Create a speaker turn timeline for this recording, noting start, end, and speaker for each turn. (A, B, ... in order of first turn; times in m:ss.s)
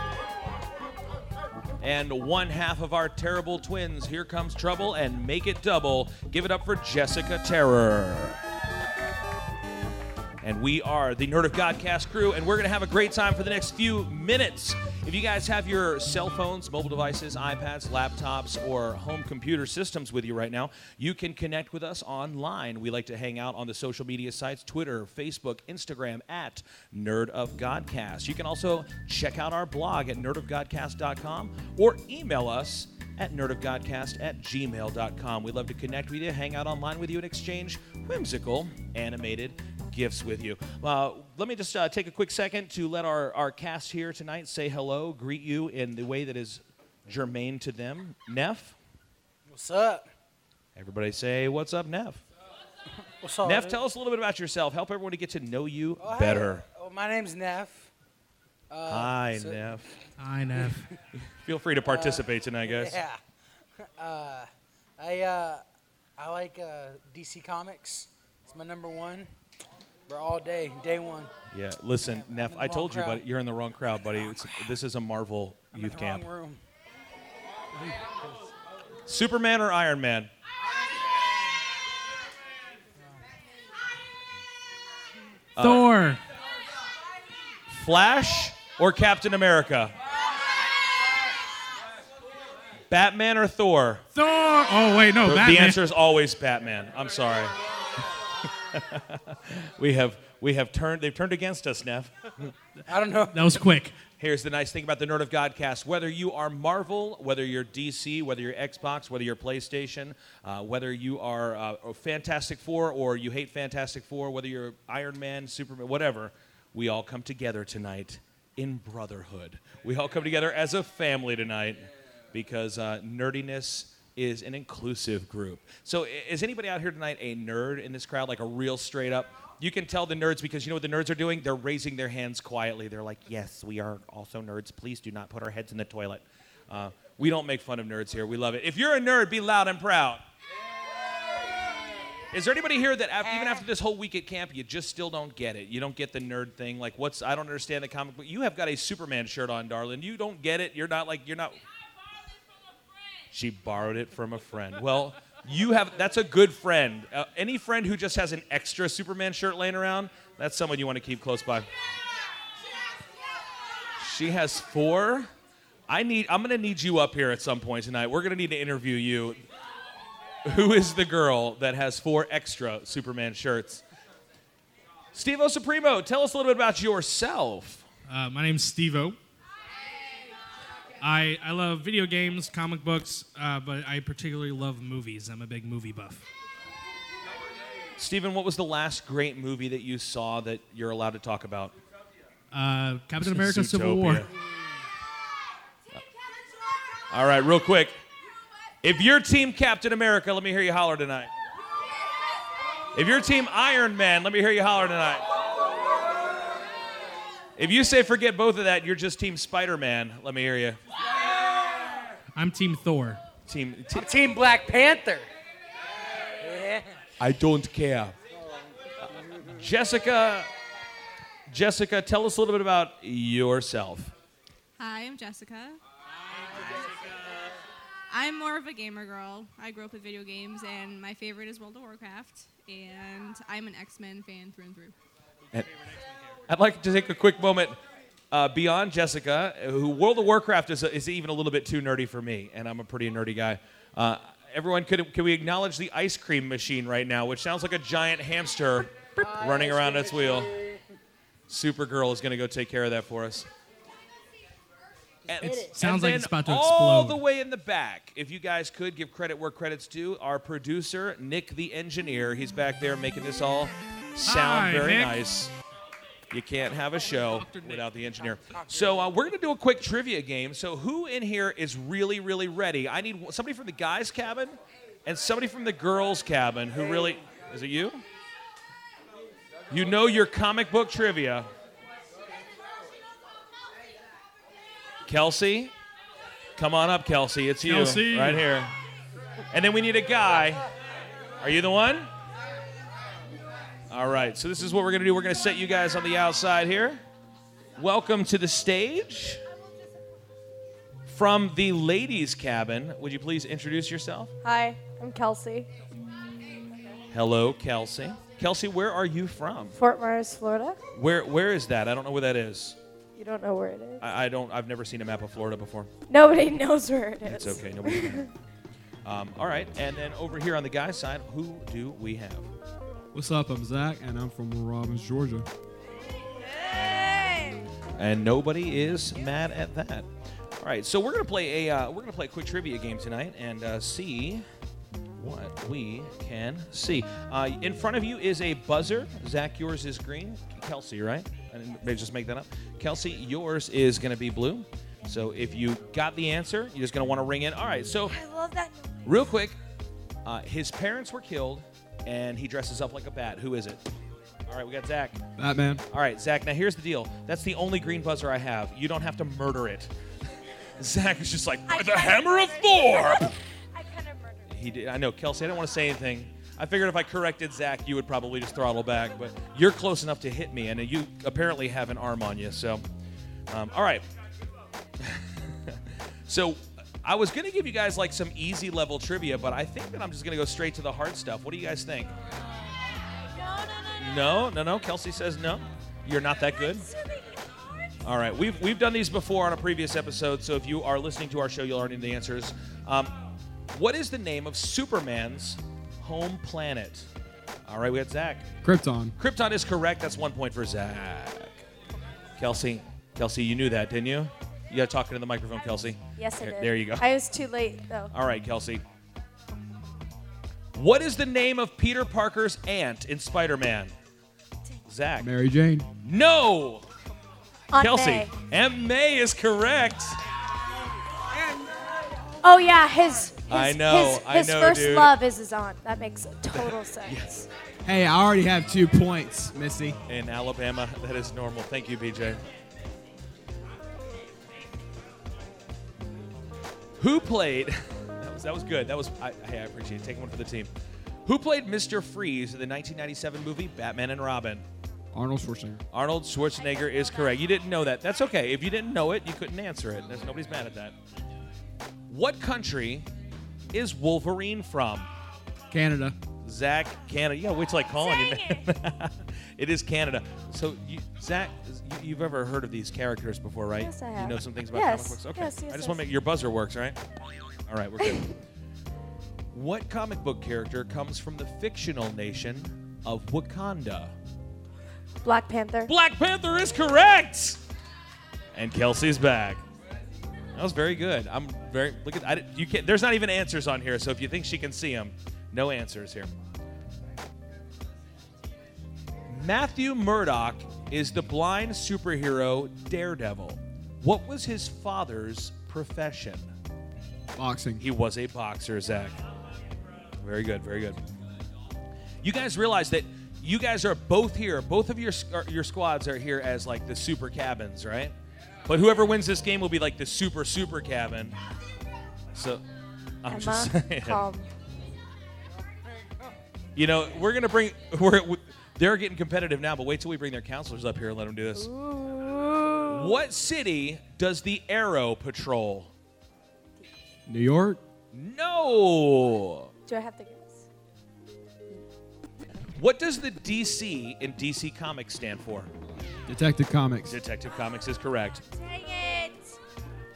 0:01.8-0:08.4 A
0:10.4-0:48.8 A
0:49.5-0:50.1 B
0:50.8-0:52.2 A
0:53.2-0:53.8 B
0:53.4-0:56.6 A
0:56.0-0:57.9 B
0:58.7-0:59.6 B
0:58.9-0:59.9 A
1:00.2-1:00.9 C
1:01.4-1:03.0 A
1:01.8-1:03.2 B
1:04.0-1:04.5 B
1:05.0-1:05.6 B
1:06.2-1:09.3 B
1:10.1-1:11.3 B
1:11.5-1:16.3 A
1:12.0-1:13.2 B
1:14.2-1:14.5 B
1:15.7-1:16.6 B
1:17.8-1:18.2 B
1:19.0-1:20.3 A
1:25.6-1:25.9 A
1:25.6-1:26.2 C
1:27.7-1:29.9 A
1:32.9-1:34.0 A
1:34.1-1:35.8 C
1:35.2-1:37.6 A
1:38.7-1:42.5 A
1:42.9-1:43.5 B
1:43.3-1:43.9 C
1:44.2-2:20.2 A
2:22.3-2:31.6 A
2:33.3-2:41.7 A
2:44.0-2:45.3 A
2:45.9-2:49.4 A
2:50.4-2:53.8 A
2:55.1-2:57.8 A
2:58.1-2:59.2 C
3:01.0-3:06.2 C
3:08.0-3:11.8 A
3:12.5-3:14.3 C
3:13.2-3:14.3 A
3:17.1-3:18.0 A
3:18.8-3:21.3 A
3:22.9-3:25.2 A
3:27.6-3:30.8 A
3:32.3-3:33.2 C
3:33.5-3:34.1 A
3:33.9-3:35.3 B
3:36.4-3:36.8 B
3:37.2-3:38.2 A
3:39.5-3:40.5 A
3:41.5-3:44.1 A
3:44.8-3:45.8 D
3:48.1-3:54.9 D
3:56.5-3:57.8 A
3:58.3-4:10.5 A
4:09.2-4:10.8 B
4:11.5-4:13.5 A
4:15.3-4:25.5 A
4:15.4-4:15.7 B
4:15.7-4:17.2 C
4:24.2-4:25.2 C
4:26.3-4:38.0 A
4:27.1-4:27.8 C
4:28.2-4:29.2 B
4:39.7-4:41.5 A
4:45.0-4:45.7 A
4:46.6-4:48.7 A
4:47.6-4:48.4 C
4:49.5-4:50.7 A
4:51.4-4:52.1 A
4:53.9-4:57.0 A
4:57.8-4:59.4 A
5:01.0-5:04.3 A
5:04.4-5:05.7 E
5:07.1-5:09.8 A
5:09.8-5:10.8 E
5:10.9-5:12.8 A
5:13.2-5:14.0 E
5:14.0-5:15.9 A
5:16.1-5:18.3 E
5:17.2-5:18.3 A
5:19.0-5:22.5 A
5:23.1-5:25.5 F
5:28.0-5:30.1 A
5:30.6-5:34.5 A
5:35.2-5:48.2 A
5:49.0-5:49.6 A
5:50.2-5:53.8 A
5:54.5-5:55.2 A
5:55.4-5:55.8 F
5:55.9-5:59.9 A
6:00.8-6:03.4 A
6:01.7-6:04.5 E
6:04.5-6:12.8 A
6:13.5-6:14.0 A
6:15.0-6:22.1 A
6:23.4-6:24.2 E
6:24.0-6:26.9 A
6:26.6-6:27.2 E
6:28.0-6:33.1 A
6:33.7-6:37.1 A
6:37.6-6:38.5 A
6:38.6-6:39.1 F
6:39.2-6:41.6 A
6:42.4-6:47.0 A
6:46.2-6:48.1 E
6:48.1-6:48.8 A
6:50.8-6:53.9 A
6:54.9-6:55.3 A
6:55.2-6:55.9 F
6:56.0-6:56.9 A
6:57.7-6:58.3 E
6:57.8-7:00.2 A
7:02.4-7:07.5 E
7:03.5-7:05.1 A
7:06.5-7:07.3 A
7:07.8-7:10.0 F
7:10.1-7:12.4 A
7:17.0-7:20.7 A
7:21.2-7:24.6 A
7:25.1-7:25.8 F
7:25.9-7:30.9 A
7:32.1-7:33.1 A
7:33.7-7:35.1 A
7:35.7-7:36.2 F
7:36.4-7:47.0 A
7:38.0-7:38.6 E
7:43.8-7:46.0 E
7:47.7-7:48.4 A
7:49.5-7:54.1 A
7:55.2-7:55.9 E
7:55.9-7:57.6 A
7:58.5-7:59.6 A
8:00.6-8:06.3 A
8:09.3-8:16.5 A
8:17.4-8:17.8 F
8:17.8-8:19.2 A
8:20.2-8:21.0 A
8:22.2-8:28.1 A
8:28.6-8:31.4 A
8:32.3-8:32.6 A
8:33.2-8:34.2 A
8:33.3-8:34.5 E
8:36.8-8:41.7 A
8:41.6-8:43.2 E
8:42.9-8:45.9 A
8:47.3-8:47.8 F
8:48.1-8:49.7 A
8:49.9-8:50.6 E
8:52.8-8:55.7 A
8:56.3-8:57.2 F
8:57.1-8:58.4 A
8:58.6-8:59.4 E